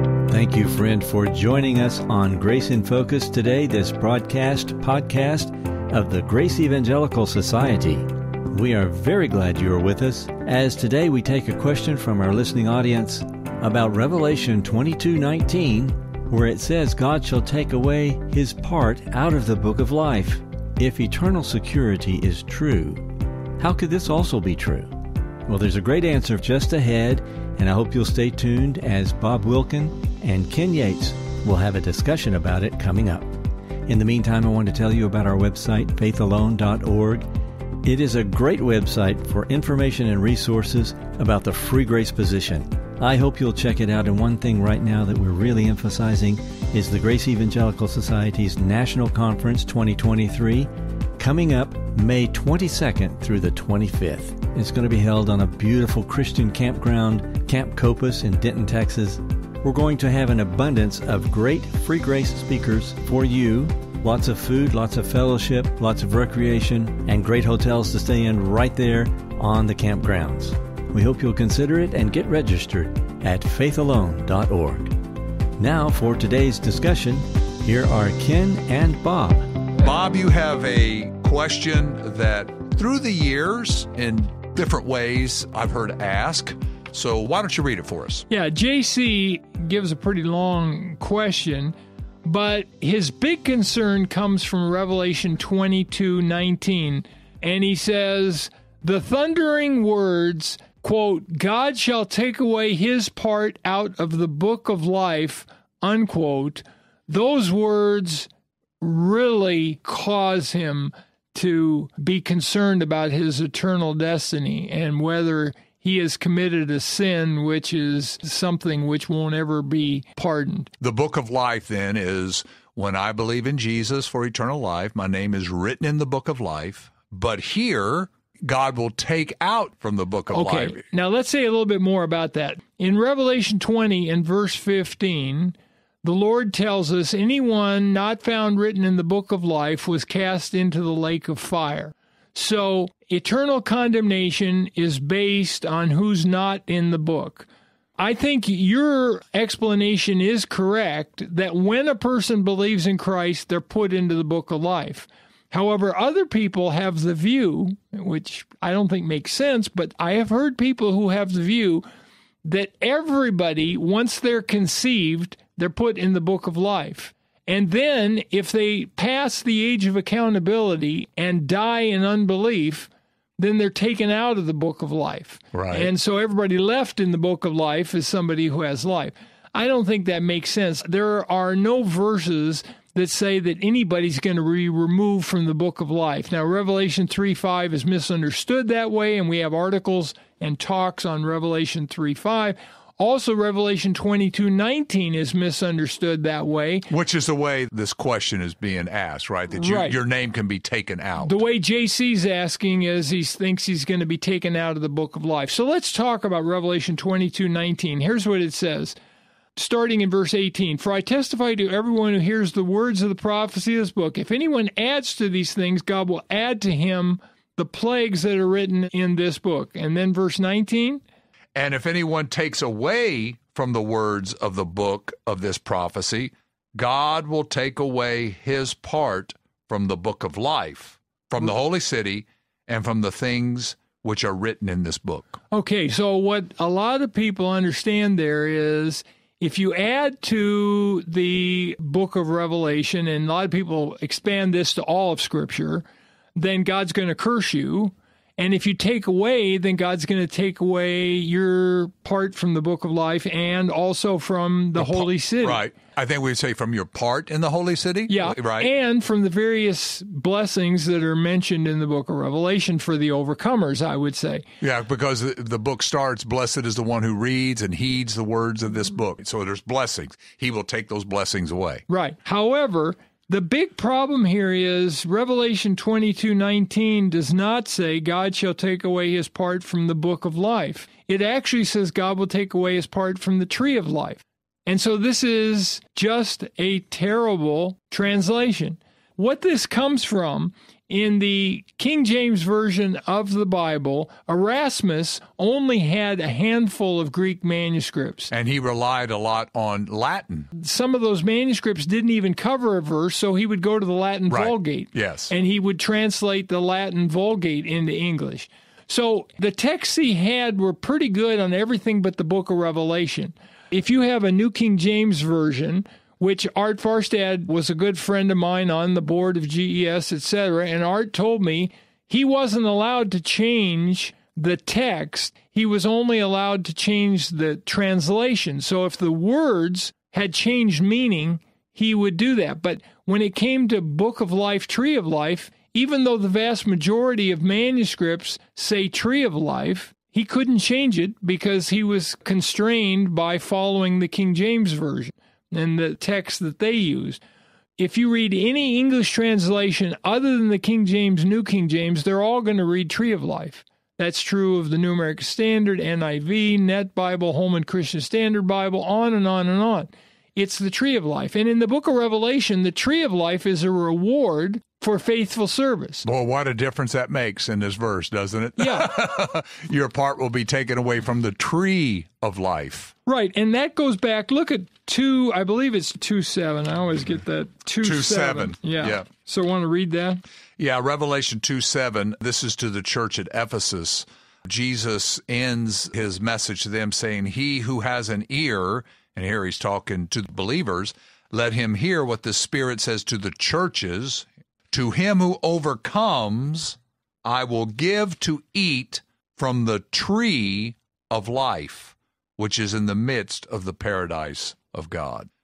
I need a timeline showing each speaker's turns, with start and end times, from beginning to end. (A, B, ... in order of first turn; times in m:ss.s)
0:00.3-0:23.1 A
0:23.6-0:24.9 A
0:25.5-0:33.3 A
0:33.9-0:37.3 A
0:37.8-1:15.0 A
1:15.6-1:19.6 A
1:19.8-1:28.3 B
1:28.3-1:48.3 C
1:48.8-2:00.7 C
2:00.8-2:10.8 B
2:10.3-2:41.8 C
2:42.4-3:16.9 C
2:55.5-2:55.9 B
3:16.9-3:21.4 B
3:19.5-3:20.0 C
3:21.2-3:29.0 C
3:29.6-3:41.0 C
3:41.6-3:55.4 B
3:55.5-4:15.6 C
4:14.8-4:18.7 B
4:18.1-4:24.4 C
4:24.6-4:31.8 B
4:31.9-4:58.3 C
4:58.3-5:00.5 B
5:00.5-5:47.2 C
5:04.3-5:05.3 B
5:47.8-6:06.0 C
6:06.0-6:12.9 B
6:08.6-6:08.9 C
6:13.1-6:20.2 C
6:17.8-6:19.1 B
6:20.6-6:45.3 B